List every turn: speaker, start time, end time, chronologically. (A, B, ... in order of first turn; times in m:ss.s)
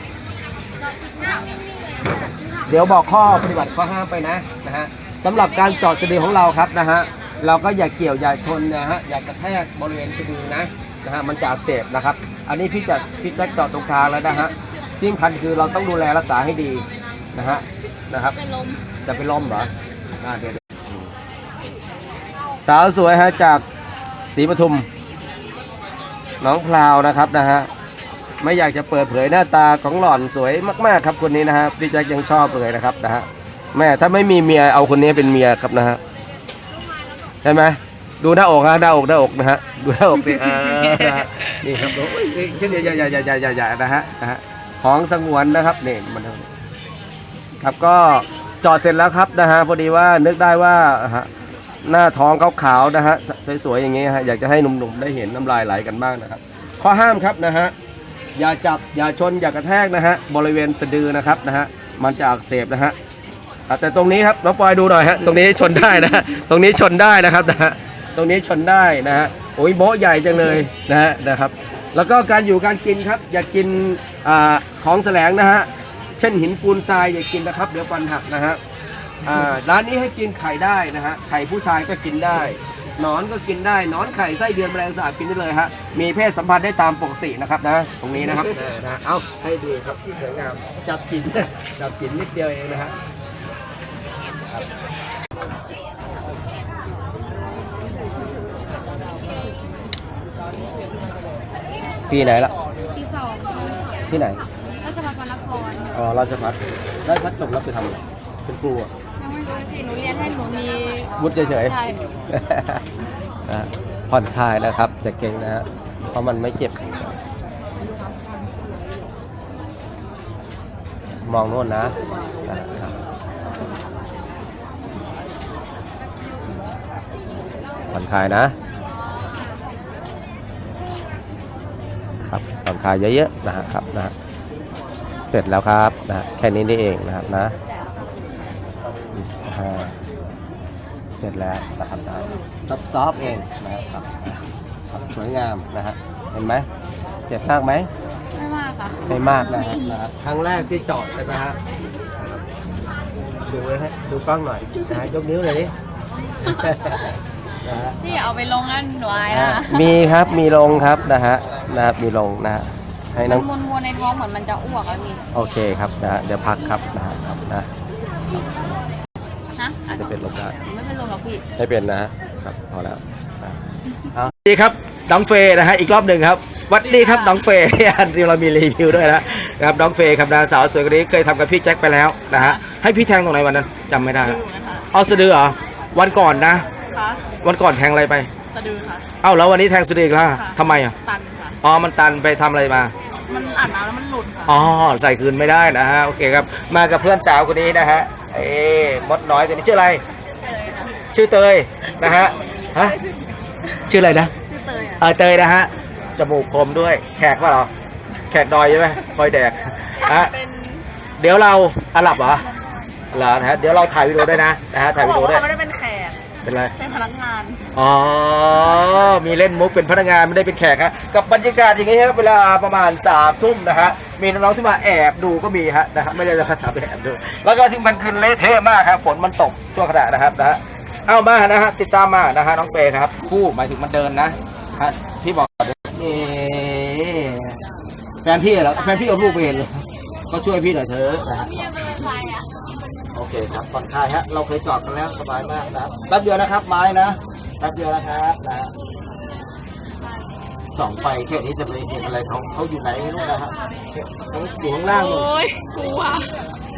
0:00.8-0:03.6 A
0:02.7-0:18.4 B
0:05.5-0:06.4 A
0:13.6-0:14.6 A
0:18.4-0:18.8 A
0:19.0-0:21.1 B
0:22.6-0:23.6 B
0:24.3-0:24.9 B
0:26.4-0:27.7 B
0:28.4-0:36.0 B
0:37.4-0:46.5 B
0:47.6-0:51.3 B
0:51.8-0:57.7 B
0:58.3-1:03.0 B
1:03.7-1:18.6 B
1:19.2-1:33.0 B
1:42.1-1:42.5 B
1:42.9-1:43.9 A
1:44.1-1:44.4 B
1:44.8-1:46.0 A
1:45.9-1:48.9 B
1:49.2-1:52.0 A
1:51.2-1:57.2 B
2:01.2-2:03.0 B
2:07.9-2:08.6 B
2:12.2-2:14.1 B
2:15.3-2:17.6 B
2:19.1-2:20.0 B
2:21.2-2:24.3 B
2:24.9-2:26.7 B
2:27.3-2:27.9 B
2:28.4-2:29.9 A
2:29.1-2:31.6 B
2:33.4-2:35.7 B
2:36.4-2:38.2 B
2:38.0-2:40.0 A
2:39.3-2:43.5 B
2:43.2-2:45.2 A
2:45.3-2:47.7 B
2:49.6-2:50.0 A
2:49.9-2:50.6 B
2:50.6-2:51.4 A
2:51.6-2:53.6 B
2:54.1-3:04.4 B
2:56.8-2:57.4 C
3:04.1-3:04.9 C
3:04.9-3:06.7 B
3:06.9-3:07.2 C
3:07.4-3:08.3 B
3:08.5-3:09.1 C
3:09.2-3:11.0 B
3:10.3-3:11.6 C
3:11.6-3:12.9 B
3:13.2-3:14.7 C
3:14.4-3:20.0 B
3:21.1-3:23.0 B
3:23.9-3:24.3 B
3:24.5-3:25.0 C
3:25.0-3:27.7 B
3:28.3-3:30.3 B
3:30.0-3:30.8 C
3:31.2-3:32.5 B
3:33.1-3:35.4 B
3:34.9-3:36.2 C
3:36.4-3:36.7 B
3:36.7-3:37.6 C
3:37.7-3:57.6 B
3:58.2-4:02.0 B
4:01.6-4:02.4 A
4:03.1-4:08.7 B
4:10.8-4:15.3 B
4:14.9-4:16.3 C